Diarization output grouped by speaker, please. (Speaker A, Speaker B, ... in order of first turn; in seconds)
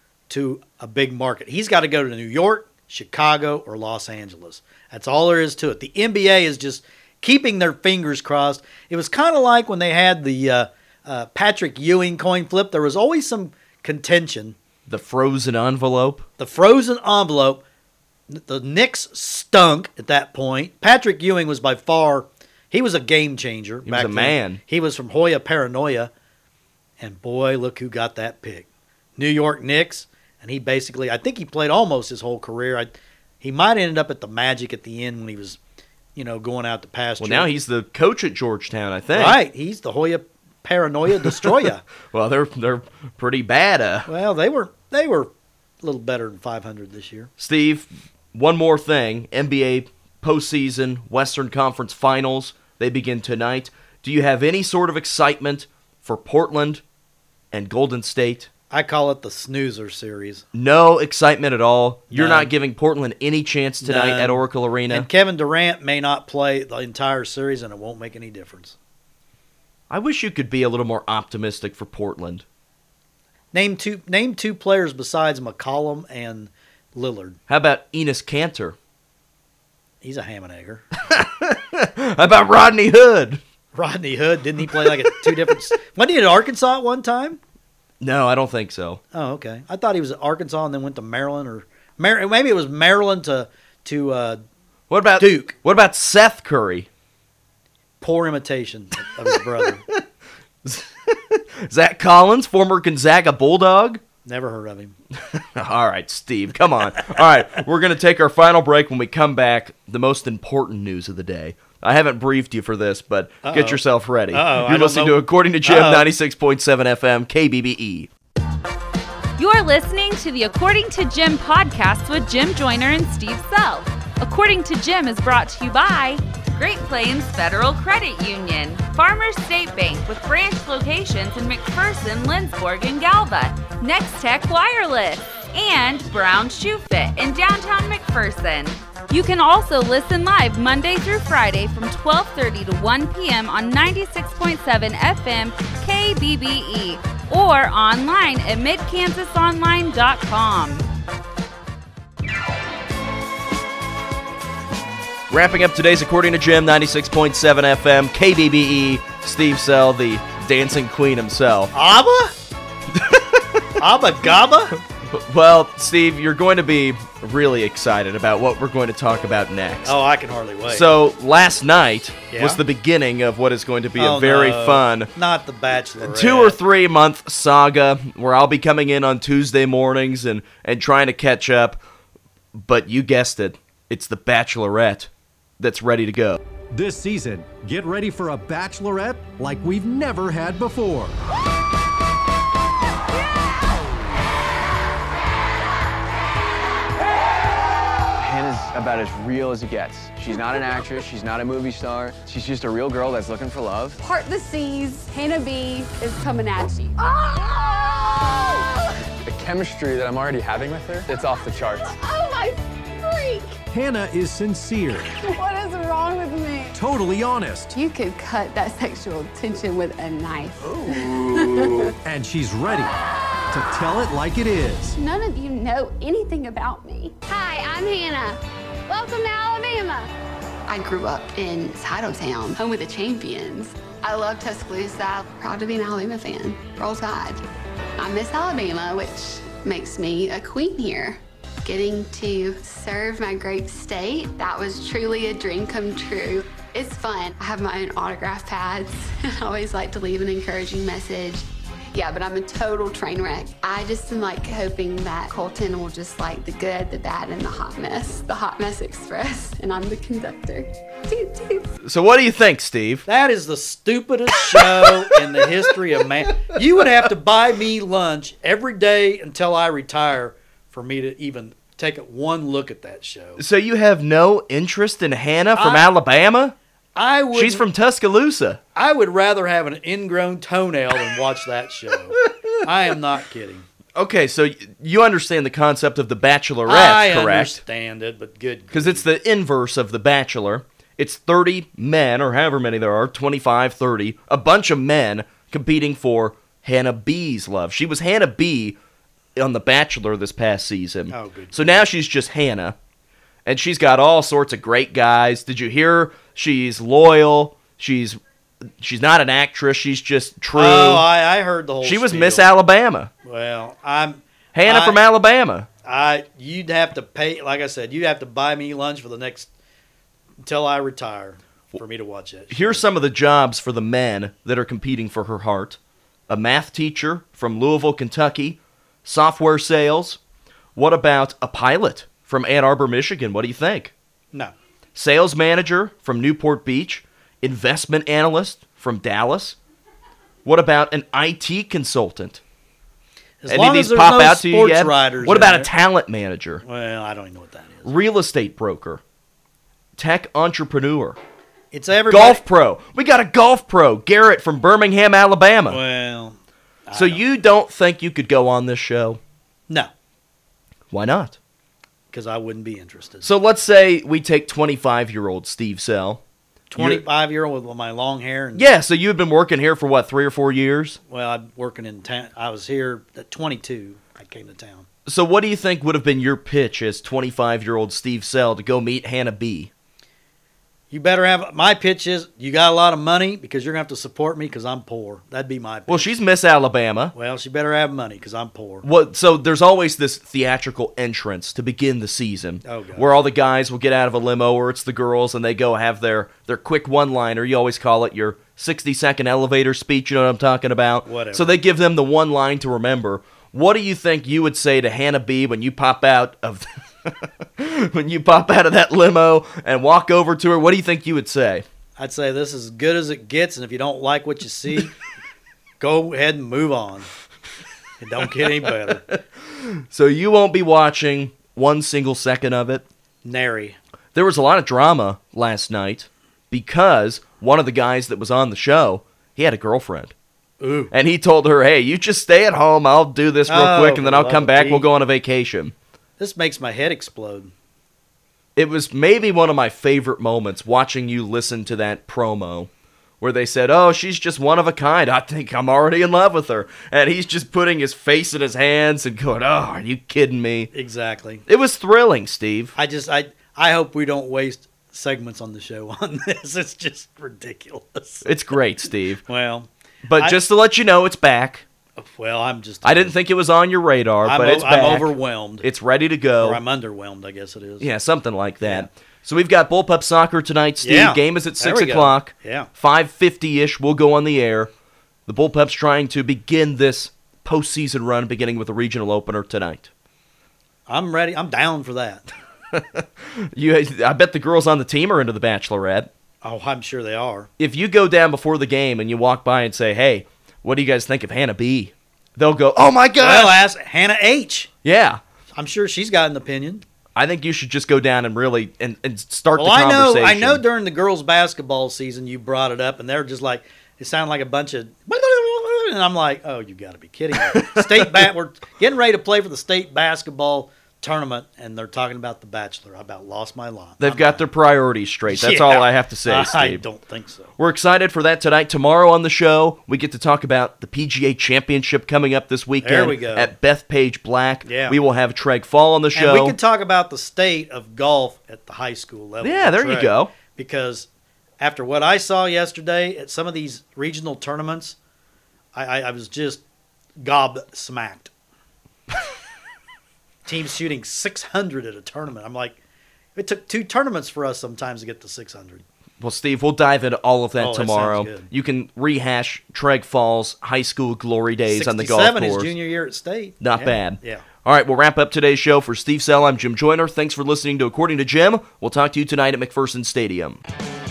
Speaker A: 0.3-14.6, 16.4-17.6, 18.3-26.1, 27.0-35.6, 36.1-37.5, 39.1-41.8, 44.0-45.3, 45.8-47.3, 58.7-60.4, 62.1-62.5, 63.8-68.7, 73.5-77.4, 80.0-80.8, 83.7-87.4, 89.1-94.4, 95.2-95.5, 98.0-99.8, 104.2-104.9, 113.4-116.1, 161.7-162.3, 163.8-164.8, 169.8-170.9, 172.3-172.6, 174.0-176.6, 263.1-273.4, 275.6-275.9, 276.9-277.6, 278.8-283.6, 286.6-289.0, 301.1-301.8, 310.5-312.5, 313.2-315.0, 315.8-319.5, 320.4-322.8, 343.4-345.7, 346.6-347.9, 351.7-352.4, 355.7-356.4, 356.9-357.2, 362.1-363.3, 366.7-368.6, 371.1-374.9, 380.9-386.1, 387.1-388.8, 392.6-393.1, 401.0-401.6, 412.0-415.0, 415.8-417.1, 418.0-419.2, 423.2-423.8, 430.6-430.9, 433.5-434.9, 436.2-437.5, 450.7-451.4, 452.8-458.2, 459.3-460.4, 462.0-463.1, 464.2-465.6, 466.4-467.9, 468.6-468.9, 470.8-472.7, 480.9-482.3, 486.4-487.5, 493.2-494.7, 495.6-496.8, 499.6-514.5, 515.3-517.5, 522.8-523.5, 524.6-525.0, 526.1-531.1, 531.6-535.0, 535.7-536.6, 537.2-538.3, 540.5-542.8, 543.4-545.8, 547.6-548.5, 551.7-554.4
Speaker B: 14.9-16.2, 23.8-24.6, 37.2-39.4, 41.2-41.5, 42.1-44.1, 47.4-56.8, 57.5-58.5, 60.5-65.1, 69.9-72.4, 77.5-78.8, 81.0-83.4, 84.7-85.5, 88.0-89.0, 94.9-96.9, 100.6-104.0, 105.2-118.1, 155.3-161.7, 162.9-163.7, 164.8-170.0, 170.7-175.1, 176.0-181.8, 182.5-186.4, 261.8-263.1, 264.4-265.4, 273.4-276.6, 277.3-278.6, 284.0-287.6, 288.7-298.8, 299.4-302.8, 303.4-311.1, 311.8-313.1, 314.5-315.7, 322.5-330.2, 330.8-333.9, 334.9-339.6, 340.4-342.4, 343.5-346.6, 347.9-349.0, 350.0-351.2, 352.1-355.8, 356.9-359.2, 360.9-361.4, 363.2-366.2, 366.8-367.0, 368.6-371.0, 375.1-379.7, 385.9-387.1, 388.8-411.6, 418.9-422.8, 424.1-430.1, 430.9-435.7, 438.6-442.7, 443.2-450.7, 451.5-452.7, 458.2-459.2, 460.0-461.6, 462.8-466.6, 467.8-474.7, 475.3-479.9, 482.7-486.1, 487.6-493.6, 494.8-495.2, 497.1-500.6, 507.3-508.3, 514.0-516.8, 517.6-526.6, 529.4-530.3, 546.2-552.7, 553.6-560.6
Speaker C: 119.4-150.9
Speaker D: 186.7-191.2, 213.7-215.1, 216.7-217.7, 220.8-222.9, 223.5-224.9
Speaker E: 198.2-204.0, 209.2-212.0
Speaker F: 204.0-208.9, 211.8-213.6, 215.1-216.8, 217.7-221.9, 222.9-223.5, 224.9-230.1, 230.7-237.4, 238.0-261.7